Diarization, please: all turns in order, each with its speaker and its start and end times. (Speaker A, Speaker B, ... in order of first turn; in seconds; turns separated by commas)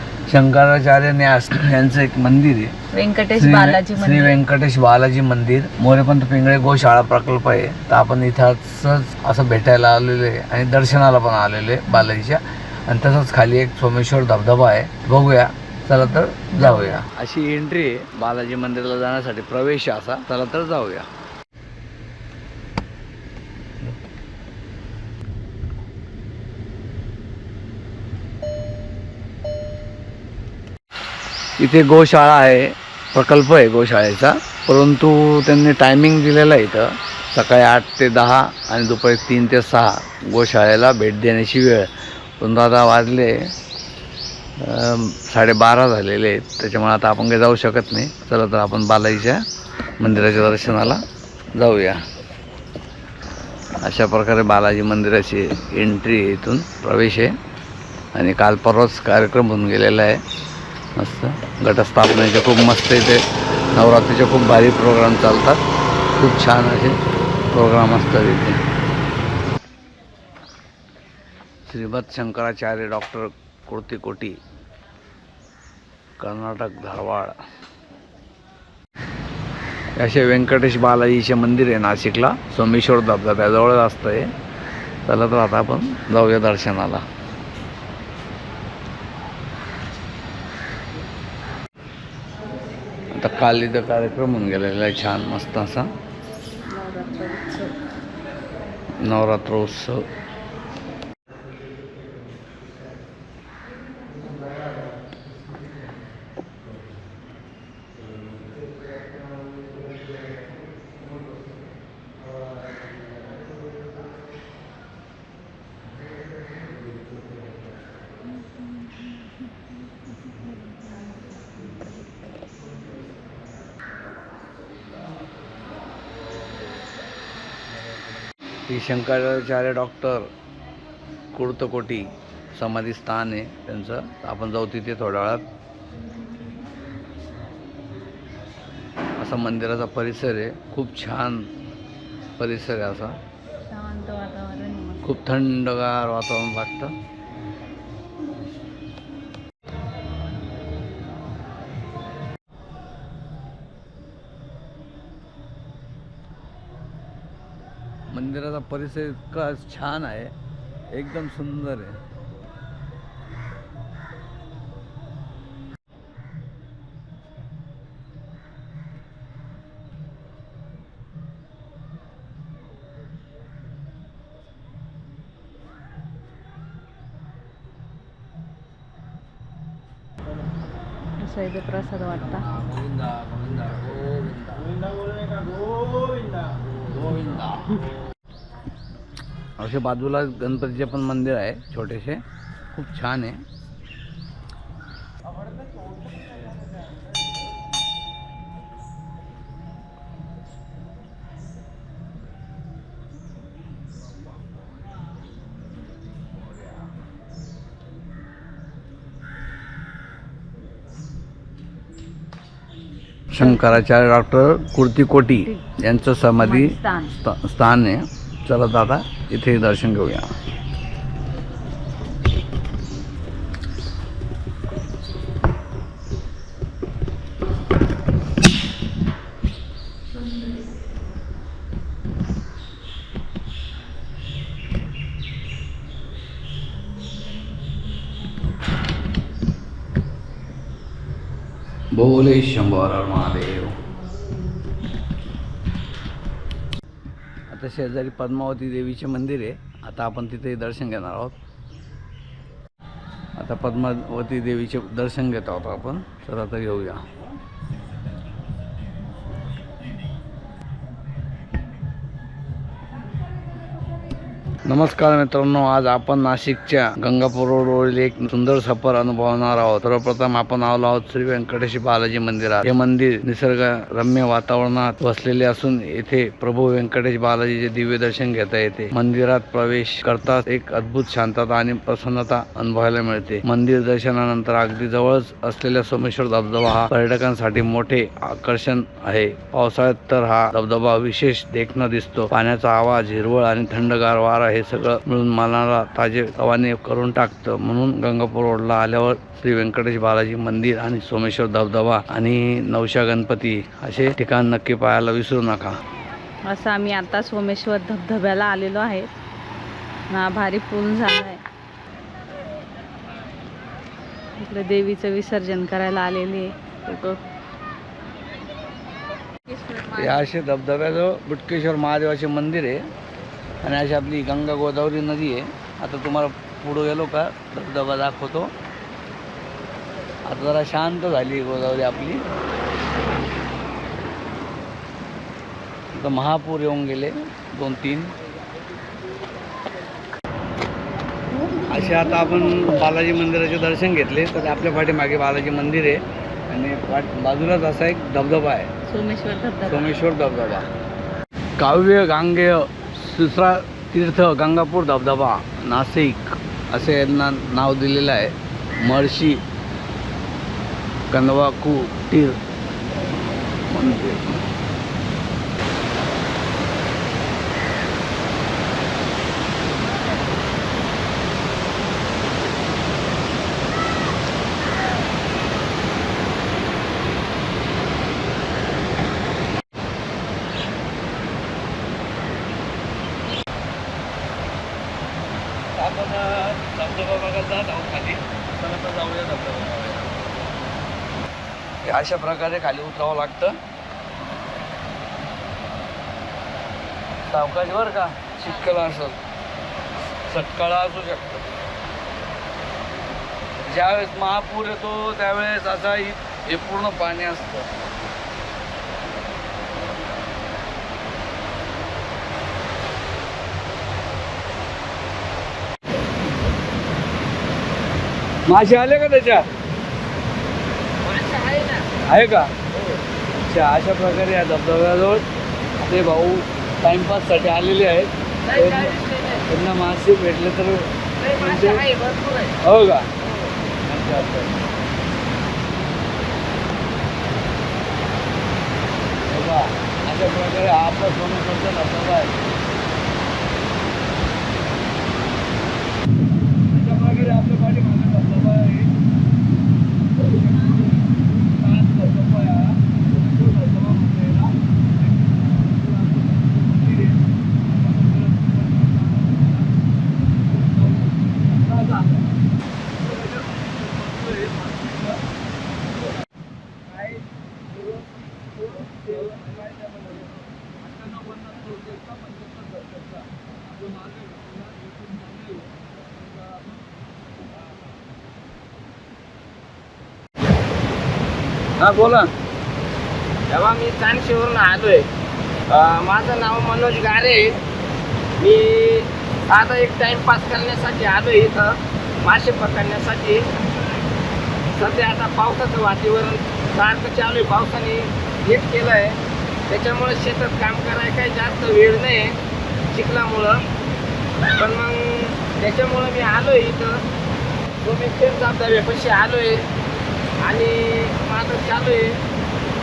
Speaker A: 0.3-2.7, Speaker B: 2.9-4.4, Speaker A: 3.3-21.1, Speaker B: 16.5-17.0, Speaker A: 31.6-41.9, Speaker A: 42.4-43.3, Speaker A: 44.6-49.4, Speaker A: 50.0-51.0, Speaker A: 51.5-52.0, Speaker A: 53.8-57.3, Speaker A: 58.1-60.2, Speaker A: 61.0-63.2, Speaker A: 63.8-65.6, Speaker A: 66.1-67.0, Speaker A: 67.5-68.6, Speaker A: 71.7-74.4, Speaker A: 76.2-77.4, Speaker A: 80.0-84.3, Speaker A: 85.1-87.0, Speaker A: 93.1-95.9, Speaker B: 96.7-97.7, Speaker A: 99.0-100.1, Speaker A: 128.7-130.3, Speaker A: 131.3-135.4, Speaker A: 139.2-141.5, Speaker A: 142.4-143.2, Speaker B: 143.6-145.1, Speaker A: 145.0-146.9, Speaker A: 158.1-160.3, Speaker A: 160.9-162.0, Speaker B: 181.2-182.4, Speaker A: 182.2-184.7, Speaker A: 186.8-187.7, Speaker A: 189.6-192.2, Speaker A: 192.7-193.4, Speaker A: 213.3-220.3, Speaker B: 213.4-213.8, Speaker B: 215.3-215.6, Speaker B: 216.4-217.1, Speaker A: 241.9-243.8, Speaker A: 247.5-251.4, Speaker A: 253.4-257.0, Speaker A: 264.7-305.8, Speaker B: 306.5-309.1, Speaker B: 310.1-311.4, Speaker B: 314.4-317.2, Speaker B: 319.5-320.3, Speaker A: 319.9-322.8, Speaker A: 323.6-328.5, Speaker A: 330.3-332.2, Speaker A: 335.9-338.1, Speaker A: 341.7-348.7, Speaker B: 348.9-349.9, Speaker A: 349.6-350.7, Speaker A: 351.6-359.4, Speaker A: 361.1-362.4, Speaker A: 363.7-364.4, Speaker A: 385.8-390.2, Speaker A: 391.8-393.6, Speaker A: 397.3-399.2, Speaker A: 400.3-401.4, Speaker A: 403.6-407.7, Speaker A: 418.5-419.5, Speaker C: 421.0-421.9, Speaker A: 422.1-422.5, Speaker A: 423.4-425.2, Speaker A: 425.8-429.0, Speaker C: 428.5-429.4, Speaker A: 429.5-431.8, Speaker C: 431.2-432.6, Speaker A: 432.6-433.1, Speaker A: 433.9-434.5, Speaker A: 439.3-442.3, Speaker A: 446.7-448.9, Speaker A: 450.2-454.5, Speaker A: 455.2-457.2, Speaker A: 457.8-459.6, Speaker A: 460.5-462.2, Speaker A: 463.0-465.2, Speaker C: 466.9-467.2, Speaker A: 468.7-470.3, Speaker A: 470.8-476.8, Speaker A: 481.8-482.3, Speaker C: 483.5-485.1, Speaker C: 485.7-487.6, Speaker C: 488.4-493.5, Speaker C: 494.7-502.4, Speaker C: 502.9-503.6, Speaker C: 504.5-507.0, Speaker C: 507.8-509.6, Speaker C: 510.4-512.2